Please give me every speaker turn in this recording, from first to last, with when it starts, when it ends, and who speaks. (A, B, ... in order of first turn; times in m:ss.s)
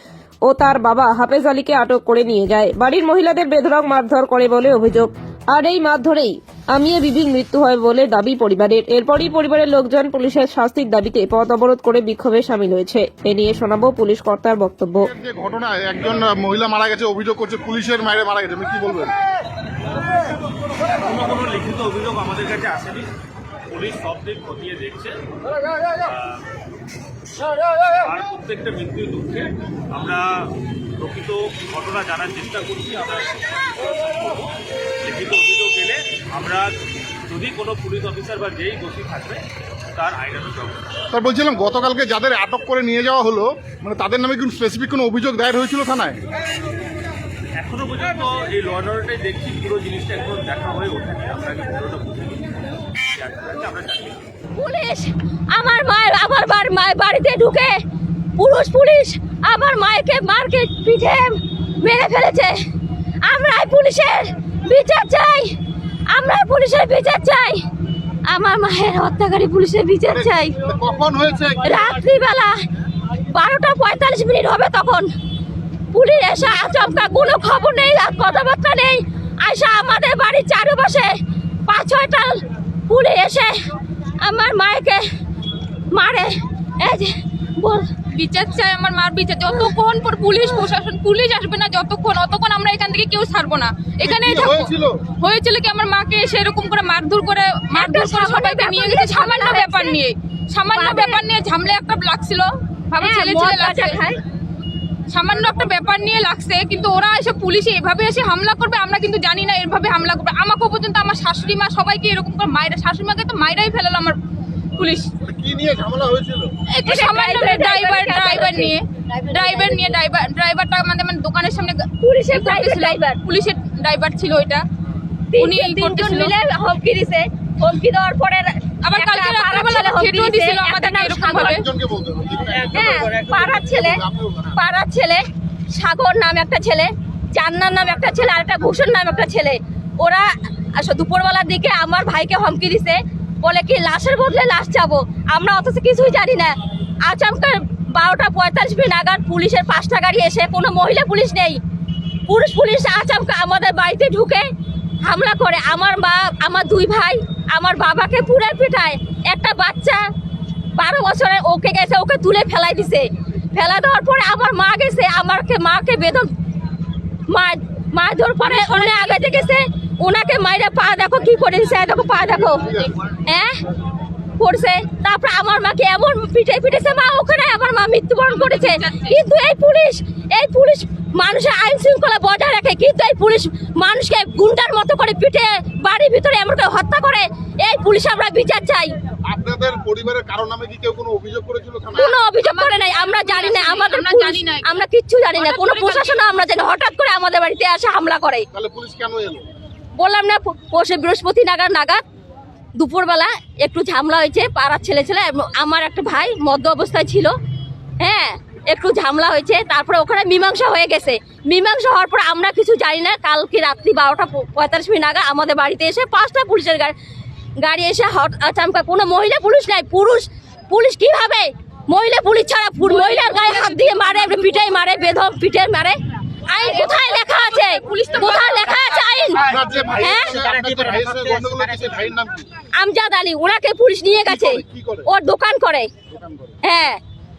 0:00.5-0:15.1 A
0:15.0-0:19.1 B
0:21.0-0:23.1 C
0:23.7-0:25.2 C
0:26.0-0:26.4 C
0:28.0-0:30.3 C
0:31.0-0:36.7 C
0:37.3-0:39.4 C
0:40.0-0:40.9 C
0:41.1-0:46.2 B
0:47.6-0:54.2 C
0:54.6-0:57.8 D
0:58.4-1:02.6 D
1:03.2-1:05.5 D
1:06.1-1:07.6 D
1:08.3-1:10.6 D
1:10.1-1:11.7 B
1:11.6-1:12.6 D
1:13.3-1:15.1 D
1:15.9-1:21.2 D
1:21.7-1:23.7 D
1:24.2-1:25.0 D
1:25.9-1:28.0 D
1:28.1-1:44.0 E
1:34.0-1:35.0 B
1:37.7-1:40.0 D
1:40.7-1:41.2 D
1:43.0-1:44.2 D
1:45.1-1:54.2 E
1:54.8-1:55.1 E
1:55.2-1:56.5 B
1:56.7-2:04.6 E
1:56.9-2:00.0 D
2:02.0-2:03.2 D
2:05.3-2:11.6 D
2:05.4-2:06.3 E
2:08.8-2:11.6 E
2:11.4-2:14.6 B
2:12.7-2:14.0 D
2:14.6-2:31.6 D
2:32.3-2:34.5 D
2:35.0-2:40.0 D
2:40.8-2:46.3 D
2:47.3-2:53.6 D
2:48.4-2:49.3 E
2:52.6-2:53.0 B
2:54.4-3:08.9 D
2:58.3-2:59.2 E
3:09.3-3:12.2 B
3:12.0-3:18.5 D
3:12.4-3:14.8 E
3:15.4-3:16.3 E
3:18.5-3:19.4 B
3:20.0-3:22.0 D
3:22.8-3:27.3 D
3:28.0-3:36.9 D
3:37.6-3:46.0 D
3:42.8-3:43.8 E
3:46.5-3:50.4 D
3:46.6-3:47.1 E
3:47.8-3:49.0 E
3:49.5-3:52.5 B
3:52.8-3:55.9 D
3:54.3-3:55.1 B
3:56.1-3:56.5 B
3:56.6-3:57.0 D